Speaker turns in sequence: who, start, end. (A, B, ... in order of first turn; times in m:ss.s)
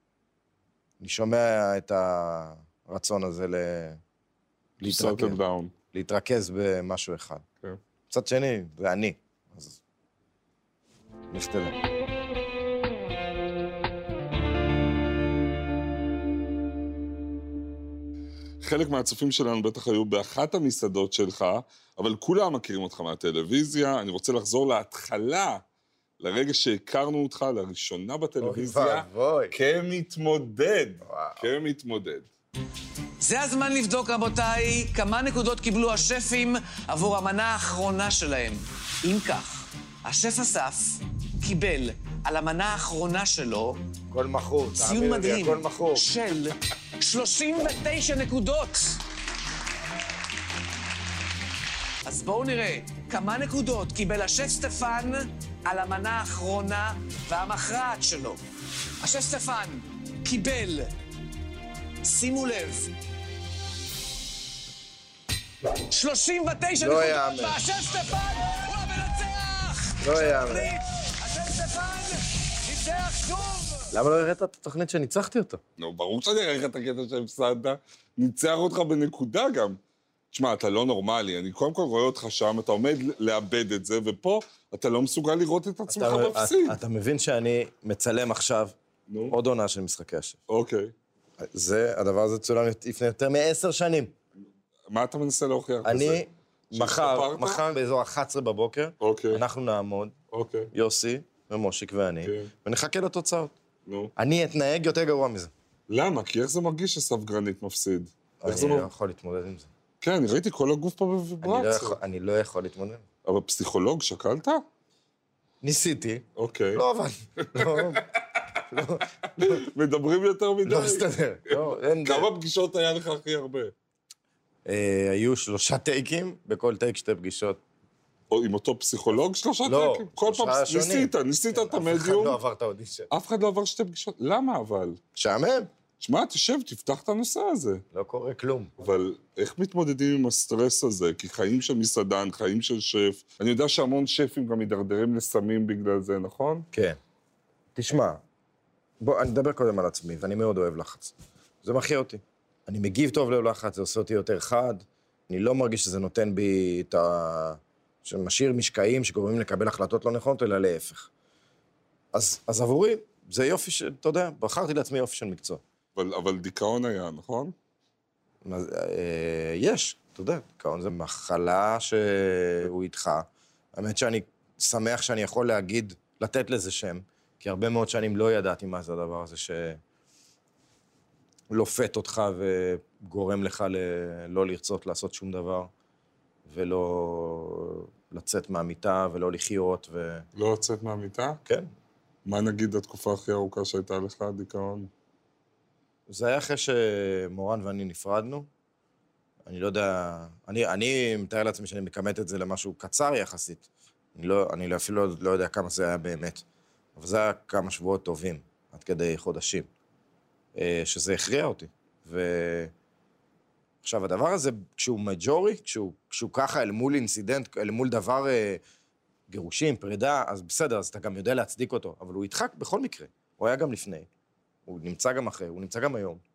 0:01.0-0:04.0 A
0:04.8-0:05.4 A
0:04.8-0:05.7 B
0:05.9-0:07.4 A
0:08.1-0:09.8 A
0:11.3-0:11.7 A
0:18.6-0:25.6 B
0:26.2-0:32.3 B
0:28.4-0:29.5 A
0:31.0-0:31.4 A
0:33.2-0:43.8 C
0:44.1-0:46.0 A
0:44.8-0:49.0 C
0:52.0-0:58.4 C
0:59.0-1:00.9 C
1:02.0-1:02.9 C
1:05.9-1:13.9 C
1:06.8-1:07.6 A
1:10.0-1:10.7 A
1:13.9-1:15.6 A
1:15.8-1:19.8 B
1:20.3-1:26.8 B
1:25.9-1:28.8 A
1:29.1-1:29.4 B
1:29.3-1:30.4 A
1:30.5-1:30.9 B
1:31.4-1:34.1 A
1:34.9-1:37.7 B
1:35.8-1:40.1 A
1:39.0-1:39.4 B
1:40.3-1:40.7 B
1:40.7-1:43.5 A
1:42.2-1:42.5 B
1:43.8-1:44.1 B
1:44.2-1:45.5 A
1:45.9-1:48.9 B
1:48.4-1:49.7 A
1:50.0-1:52.0 B
1:51.4-1:53.0 A
1:53.2-1:54.6 B
1:55.6-1:58.0 A
1:56.4-1:56.8 B
1:57.4-1:58.4 B
1:58.7-1:59.6 A
1:59.3-2:03.7 B
2:00.6-2:02.3 A
2:04.6-2:07.6 A
2:08.3-2:12.4 B
2:09.6-2:13.1 A
2:13.1-2:15.0 B
2:15.2-2:15.7 A
2:16.0-2:17.8 B
2:17.9-2:18.7 A
2:18.8-2:26.7 B
2:26.7-2:27.0 A
2:27.8-2:28.2 A
2:29.0-2:41.1 A
2:42.1-2:45.6 A
2:45.9-2:47.5 B
2:48.4-2:59.8 A
3:01.5-3:05.7 A
3:06.4-3:10.2 A
3:10.3-3:11.4 B
3:12.2-3:14.9 B
3:16.1-3:18.5 A
3:19.4-3:26.4 A
3:27.0-3:29.7 A
3:30.6-3:32.7 A
3:33.8-3:38.6 A
3:39.3-3:44.1 A
3:44.7-3:46.2 A